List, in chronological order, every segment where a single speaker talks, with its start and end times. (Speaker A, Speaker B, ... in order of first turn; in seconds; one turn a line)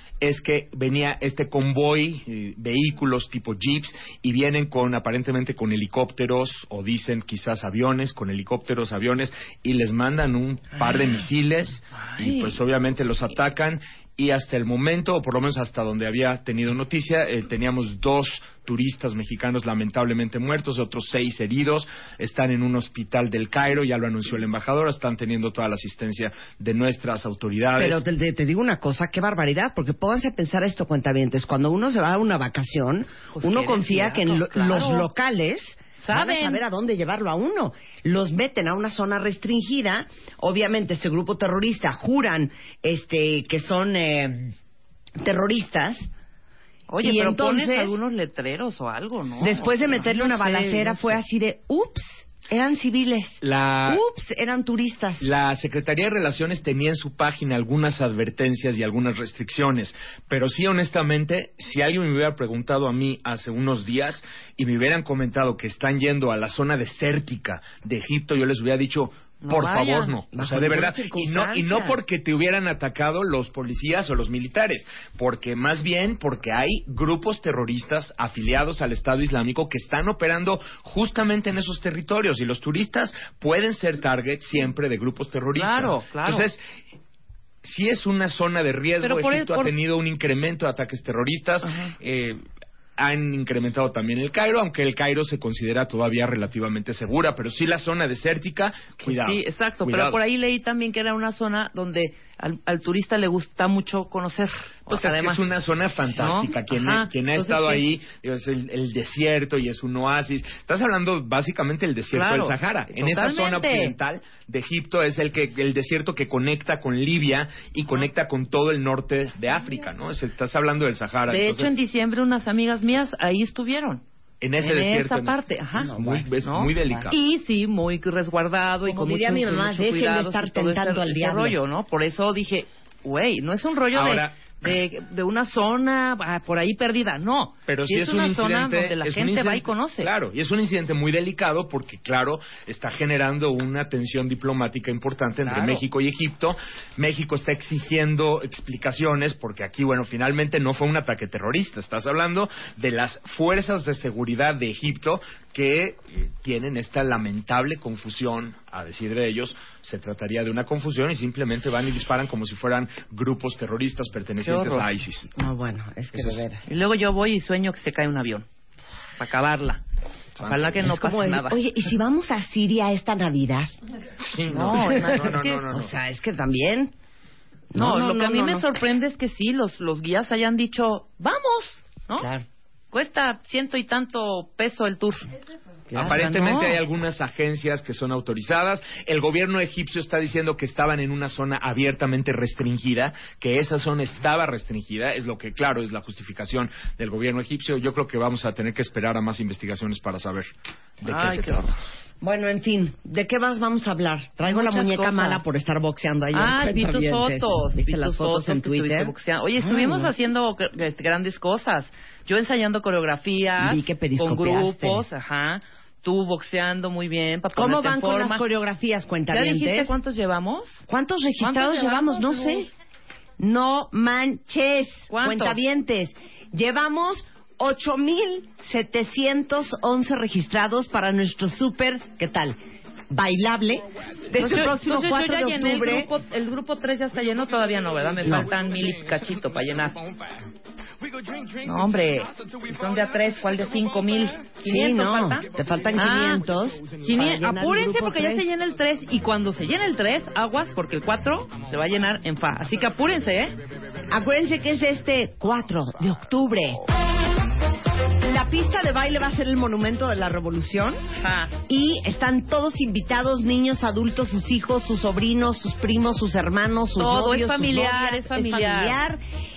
Speaker A: 0.2-28.0
Speaker B: 10.9-11.2
Speaker B: 11.9-12.6
Speaker C: 27.8-44.5
Speaker B: 33.3-35.1
Speaker B: 36.0-36.6
Speaker C: 45.2-46.1
Speaker B: 46.9-51.2
Speaker C: 47.0-48.0
Speaker C: 49.4-55.3
Speaker A: 53.4-54.0
Speaker A: 55.2-86.6
Speaker B: 69.4-70.1
Speaker C: 70.3-72.0
Speaker B: 85.5-86.5
Speaker A: 87.6-92.4
Speaker B: 89.0-89.8
Speaker B: 91.6-91.9
Speaker A: 93.0-100.2
Speaker B: 99.0-105.5
Speaker A: 104.9-121.8
Speaker B: 106.1-107.9
Speaker B: 112.1-114.0
Speaker B: 121.3-124.0
Speaker A: 124.4-127.2
Speaker B: 124.6-140.1
Speaker C: 125.8-127.1
Speaker C: 128.8-131.6
Speaker A: 133.9-134.4
Speaker A: 137.7-165.3
Speaker B: 145.4-145.9
Speaker B: 164.4-164.9
Speaker C: 165.4-166.6
Speaker A: 166.1-166.4
Speaker B: 166.7-168.5
Speaker B: 169.2-169.8
Speaker A: 170.4-170.8
Speaker B: 170.4-171.6
Speaker C: 170.8-173.7
Speaker A: 174.2-175.9
Speaker B: 174.5-175.6
Speaker C: 174.8-176.9
Speaker C: 177.7-178.7
Speaker B: 177.8-182.3
Speaker B: 182.9-185.3
Speaker A: 185.9-200.5
Speaker B: 185.9-186.8
Speaker A: 201.0-201.7
Speaker B: 201.0-201.8
Speaker C: 202.2-210.1
Speaker B: 204.4-205.4
Speaker B: 206.3-218.4
Speaker C: 213.6-215.1
Speaker C: 217.5-220.0
Speaker B: 219.3-220.8
Speaker C: 220.9-222.7
Speaker B: 221.4-222.7
Speaker C: 223.4-232.6
Speaker B: 225.1-225.6
Speaker C: 233.1-236.1
Speaker B: 234.4-240.0
Speaker C: 238.2-238.5
Speaker B: 241.6-246.4
Speaker C: 244.6-248.5
Speaker B: 247.0-253.6
Speaker C: 254.1-256.9
Speaker C: 258.2-261.0
Speaker B: 261.2-261.5
Speaker C: 261.7-269.2
Speaker B: 267.0-269.0